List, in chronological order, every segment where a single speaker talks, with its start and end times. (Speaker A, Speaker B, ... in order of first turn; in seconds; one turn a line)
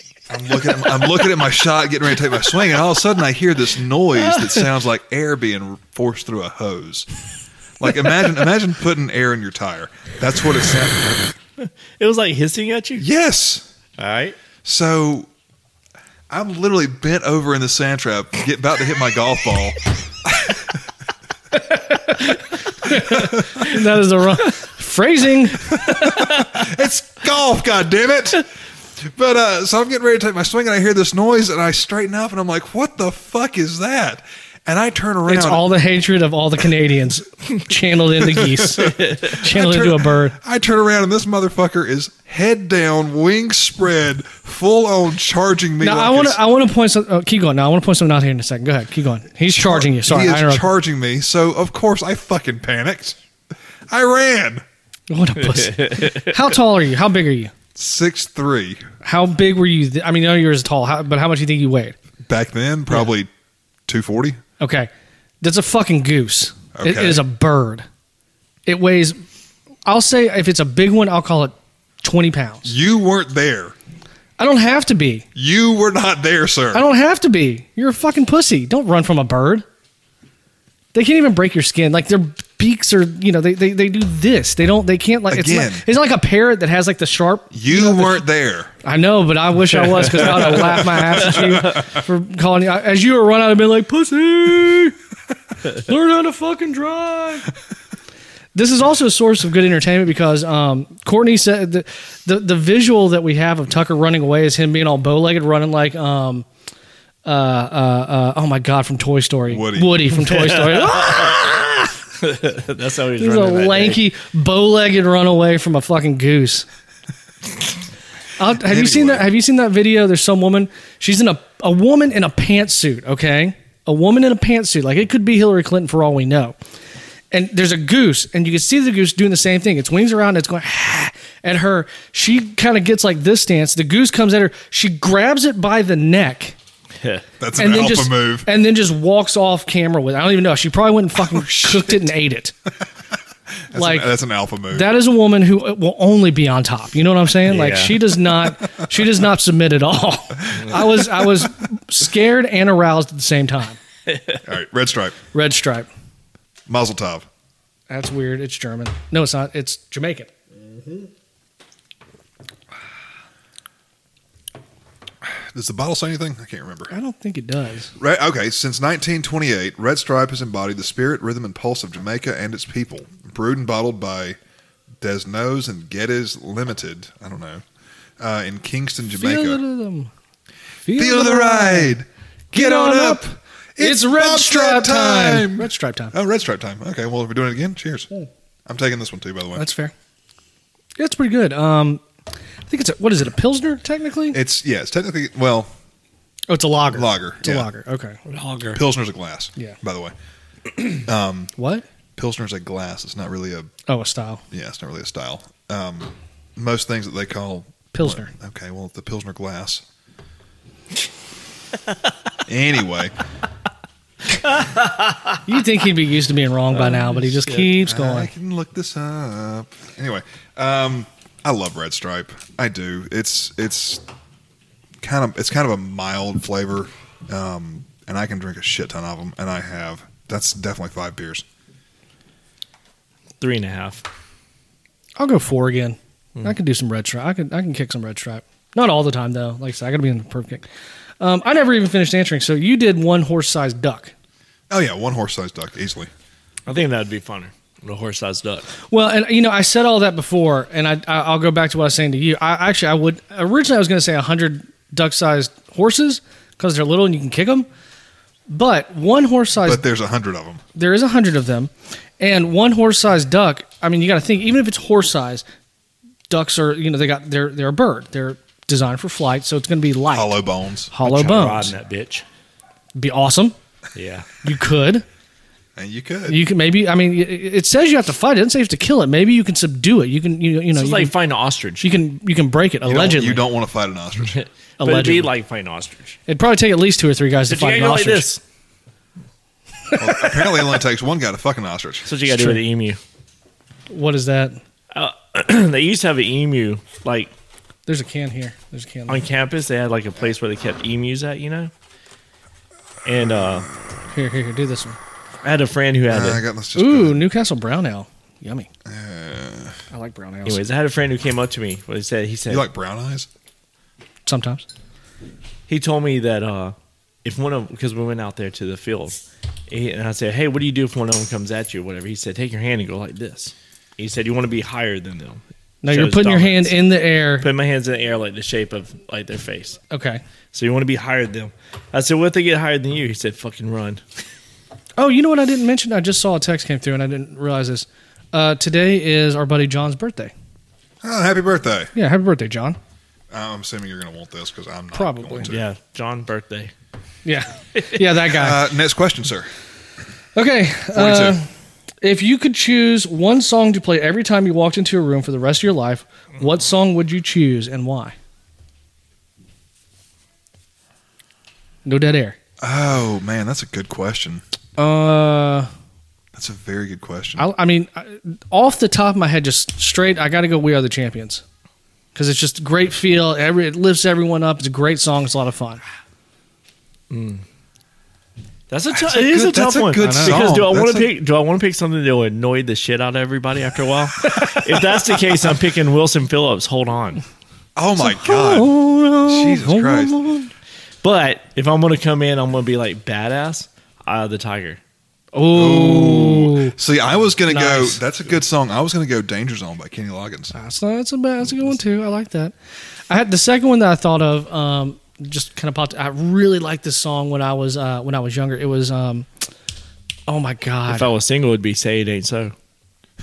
Speaker A: 0.3-7.1
Speaker A: 7.8-11.2
Speaker B: 11.6-13.1
Speaker A: 13.0-13.7
Speaker B: 14.0-14.3
Speaker A: 14.6-15.3
Speaker A: 16.3-20.8
Speaker C: 21.5-25.8
Speaker A: 22.9-23.7
Speaker A: 25.6-35.6
Speaker B: 26.1-26.5
Speaker C: 35.3-40.4
Speaker A: 38.2-46.4
Speaker B: 38.9-39.3
Speaker C: 45.8-50.7
Speaker A: 49.5-53.2
Speaker A: 53.9-54.6
Speaker C: 55.1-57.5
Speaker B: 55.5-56.2
Speaker A: 57.7-58.9
Speaker C: 59.0-62.0
Speaker A: 62.2-63.3
Speaker A: 63.9-64.4
Speaker C: 64.6-64.9
Speaker C: 65.4-67.8
Speaker A: 66.7-67.2
Speaker C: 68.7-69.2
Speaker C: 69.8-72.7
Speaker A: 72.7-73.7
Speaker C: 74.4-75.3
Speaker A: 75.3-76.8
Speaker C: 76.7-79.6
Speaker C: 80.9-88.2
Speaker A: 85.3-85.8
Speaker A: 87.5-88.7
Speaker C: 88.8-95.0
Speaker B: 89.9-90.7
Speaker A: 90.6-91.9
Speaker C: 95.6-97.5
Speaker C: 98.5-106.5
Speaker C: 107.2-111.9
Speaker A: 109.5-110.0
Speaker B: 110.2-111.3
Speaker B: 112.2-114.0
Speaker C: 113.2-116.7
Speaker C: 118.4-126.6
Speaker A: 118.5-119.3
Speaker C: 127.3-136.6
Speaker B: 137.0-137.2
Speaker A: 137.4-138.5
Speaker C: 137.6-142.5
Speaker A: 141.3-141.9
Speaker A: 143.7-144.9
Speaker C: 143.7-144.1
Speaker C: 144.7-153.8
Speaker B: 147.5-148.0
Speaker A: 150.7-151.3
Speaker A: 154.4-155.2
Speaker C: 155.3-155.9
Speaker A: 156.7-157.3
Speaker C: 157.9-160.3
Speaker A: 165.2-166.9
Speaker C: 166.9-167.9
Speaker A: 168.0-174.4
Speaker A: 175.0-177.6
Speaker A: 178.2-179.6
Speaker C: 179.1-180.1
Speaker C: 180.8-182.0
Speaker A: 180.9-188.1
Speaker C: 182.5-183.2
Speaker C: 183.8-186.1
Speaker A: 188.7-189.7
Speaker C: 189.6-189.9
Speaker C: 191.0-192.0
Speaker C: 192.7-194.4
Speaker A: 194.3-195.7
Speaker C: 196.5-198.2
Speaker A: 196.9-197.7
Speaker B: 198.3-198.8
Speaker A: 198.7-200.1
Speaker A: 200.9-201.5
Speaker C: 201.6-201.8
Speaker A: 202.2-203.7
Speaker C: 203.9-204.4
Speaker A: 204.5-209.8
Speaker C: 207.9-208.3
Speaker A: 212.5-213.1
Speaker B: 214.4-215.4
Speaker C: 215.4-218.3
Speaker B: 216.8-217.7
Speaker A: 217.8-224.0
Speaker A: 225.0-231.4
Speaker B: 233.4-234.0
Speaker C: 235.2-240.6
Speaker C: 241.2-244.1
Speaker A: 244.7-246.1
Speaker B: 246.7-248.7
Speaker C: 248.9-257.7
Speaker C: 258.5-259.8
Speaker A: 259.6-260.6
Speaker C: 260.7-265.4
Speaker C: 266.3-270.4
Speaker A: 270.1-270.9
Speaker C: 270.9-271.7
Speaker B: 271.0-272.2
Speaker C: 272.9-273.5
Speaker B: 273.9-274.3
Speaker C: 274.4-275.0
Speaker A: 275.8-276.4
Speaker C: 276.3-281.1
Speaker B: 280.7-281.9
Speaker C: 281.8-283.4
Speaker A: 282.8-284.4
Speaker B: 284.2-286.2
Speaker C: 284.8-285.3
Speaker C: 286.3-288.2
Speaker B: 287.5-288.4
Speaker A: 289.9-292.1
Speaker B: 292.1-293.0
Speaker C: 292.2-292.6
Speaker C: 293.9-294.6
Speaker B: 294.9-297.3
Speaker C: 297.9-299.2
Speaker B: 299.1-301.7
Speaker B: 303.0-303.7
Speaker C: 304.1-305.0
Speaker B: 305.4-306.4
Speaker A: 306.1-307.2
Speaker C: 306.8-308.7
Speaker A: 308.9-309.8
Speaker C: 309.9-310.6
Speaker B: 310.4-312.6
Speaker A: 312.5-313.3
Speaker C: 314.2-314.7
Speaker B: 315.7-326.8
Speaker C: 325.8-327.5
Speaker B: 327.4-329.8
Speaker C: 329.9-330.2
Speaker B: 330.5-334.0
Speaker C: 335.0-340.3
Speaker A: 341.0-341.9
Speaker C: 341.9-342.8
Speaker A: 343.3-345.7
Speaker C: 344.9-345.5
Speaker B: 345.5-346.7
Speaker C: 347.2-348.6
Speaker A: 348.2-349.5
Speaker C: 350.3-351.5
Speaker A: 350.9-351.4
Speaker C: 352.0-358.1
Speaker C: 361.8-362.4
Speaker A: 362.6-364.4
Speaker C: 364.8-365.7
Speaker A: 366.3-367.5
Speaker C: 367.4-371.4
Speaker C: 372.1-375.8
Speaker B: 377.1-377.4
Speaker B: 378.7-387.2
Speaker A: 378.9-381.1
Speaker C: 380.0-380.6
Speaker C: 384.2-385.0
Speaker A: 387.8-390.2
Speaker C: 388.0-390.5
Speaker B: 391.0-394.8
Speaker C: 395.3-396.7
Speaker A: 395.5-400.5
Speaker C: 397.5-398.0
Speaker C: 400.5-402.5
Speaker C: 403.1-409.3
Speaker C: 410.3-411.1
Speaker B: 410.9-412.5